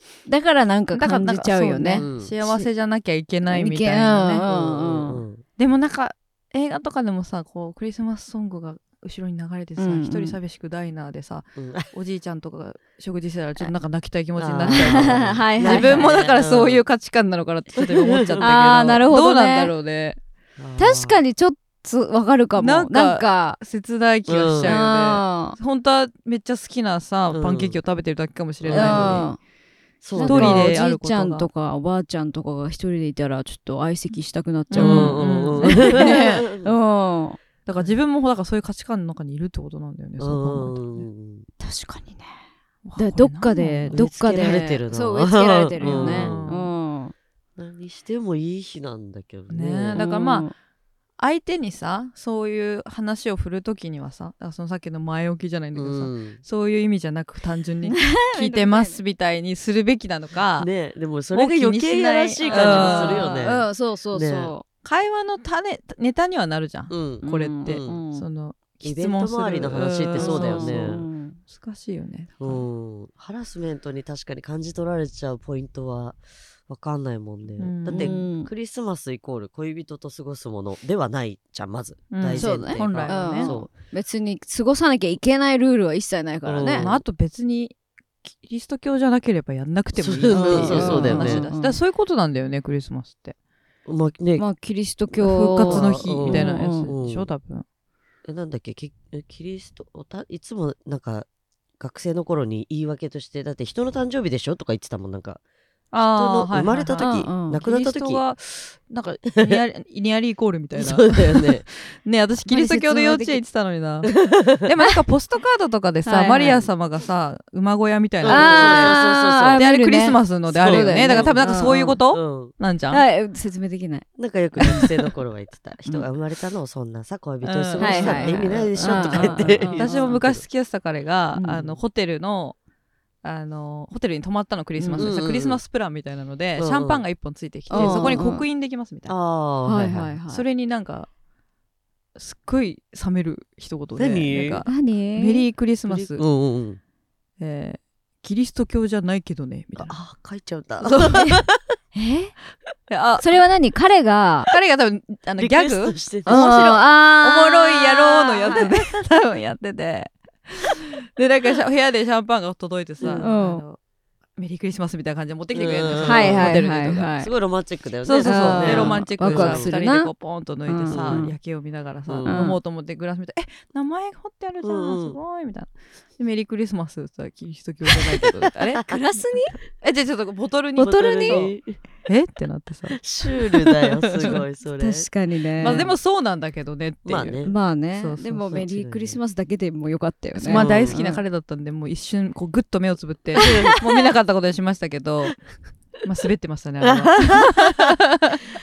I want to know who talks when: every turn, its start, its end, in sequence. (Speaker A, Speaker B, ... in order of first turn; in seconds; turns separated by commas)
Speaker A: 0.3-2.7, Speaker B: 0.9-4.4, Speaker C: 2.0-2.3, Speaker A: 3.5-5.2, Speaker C: 4.4-5.4, Speaker B: 5.6-20.2, Speaker A: 9.8-10.4, Speaker C: 11.6-11.9, Speaker C: 14.4-16.8, Speaker A: 14.7-16.1, Speaker C: 17.8-18.4, Speaker A: 18.4-19.7, Speaker C: 20.6-21.2, Speaker A: 20.8-23.6, Speaker B: 22.6-29.3, Speaker C: 24.3-24.8, Speaker A: 24.6-25.6, Speaker C: 27.3-27.8, Speaker C: 28.6-29.3, Speaker A: 28.7-29.4, Speaker C: 30.0-30.8, Speaker A: 30.1-37.4, Speaker B: 30.2-31.5, Speaker B: 34.7-36.5, Speaker C: 34.8-36.7, Speaker B: 37.6-41.0, Speaker C: 40.2-41.5, Speaker A: 41.6-42.3, Speaker B: 42.8-44.0, Speaker A: 43.0-47.1, Speaker C: 43.9-46.5, Speaker B: 45.8-46.7, Speaker C: 47.6-50.0, Speaker B: 49.5-50.5, Speaker A: 49.9-50.5, Speaker B: 51.2-60.7, Speaker C: 55.7-56.4, Speaker A: 57.9-59.0, Speaker C: 60.6-64.5, Speaker B: 61.3-63.5, Speaker A: 62.4-64.6, Speaker B: 64.8-72.6, Speaker C: 66.9-68.0, Speaker A: 67.2-68.2, Speaker C: 68.8-71.0, Speaker A: 70.1-71.4, Speaker C: 72.4-83.7, Speaker B: 77.6-78.2, Speaker A: 77.9-78.5, Speaker B: 82.1-83.5, Speaker A: 82.3-86.9, Speaker C: 86.4-87.0, Speaker B: 86.8-93.3, Speaker C: 89.9-91.5, Speaker A: 90.3-91.8, Speaker C: 93.8-94.4, Speaker A: 94.4-96.9, Speaker B: 95.2-97.6, Speaker C: 95.6-97.3, Speaker C: 98.2-101.3, Speaker C: 101.8-105.4, Speaker B: 105.9-119.0, Speaker C: 106.0-108.2, Speaker A: 107.0-107.6, Speaker C: 109.3-109.6, Speaker C: 110.7-111.6, Speaker A: 112.4-113.4, Speaker C: 114.0-114.7, Speaker A: 116.0-116.6, Speaker C: 116.4-116.7, Speaker C: 118.2-119.6, Speaker A: 118.3-122.0, Speaker B: 119.5-123.0, Speaker C: 120.5-122.5, Speaker A: 122.9-124.0, Speaker C: 124.2-130.4, Speaker A: 124.6-124.9, Speaker B: 127.4-132.6, Speaker A: 127.8-130.2, Speaker A: 131.3-131.6, Speaker B: 133.2-139.1, Speaker A: 134.8-135.1, Speaker C: 135.0-135.6, Speaker C: 136.6-137.0, Speaker A: 137.7-138.4, Speaker C: 137.7-138.2, Speaker C: 139.1-140.1, Speaker A: 139.7-140.4, Speaker B: 140.3-141.1, Speaker B: 142.2-146.2, Speaker C: 144.0-144.6, Speaker A: 144.7-145.4, Speaker C: 145.9-146.8, Speaker B: 147.4-149.9, Speaker C: 149.8-151.8, Speaker B: 150.8-151.4, Speaker A: 151.9-152.3, Speaker B: 152.9-153.2, Speaker A: 153.2-154.5, Speaker B: 154.5-163.8, Speaker C: 155.4-156.8, Speaker A: 156.2-158.7, Speaker C: 163.0-163.3, Speaker A: 163.2-163.6, Speaker B: 164.4-167.1, Speaker C: 165.5-169.7, Speaker A: 166.0-167.3, Speaker B: 168.0-179.0, Speaker A: 168.2-170.1, Speaker A: 170.7-171.3, Speaker C: 170.9-171.3, Speaker C: 172.1-172.5, Speaker A: 172.2-172.6, Speaker C: 174.6-175.2, Speaker C: 177.9-178.9, Speaker A: 178.8-179.5, Speaker B: 179.8-181.5, Speaker A: 180.8-181.5, Speaker C: 180.8-181.8, Speaker B: 182.0-184.4, Speaker C: 182.9-185.1, Speaker A: 184.8-185.9, Speaker C: 185.6-185.9, Speaker B: 185.6-188.4, Speaker C: 187.0-187.5, Speaker A: 187.4-191.2, Speaker C: 188.4-189.2, Speaker B: 190.4-195.4, Speaker C: 190.5-191.0, Speaker C: 193.4-193.8, Speaker A: 193.4-193.8, Speaker B: 196.0-198.5, Speaker C: 196.8-197.9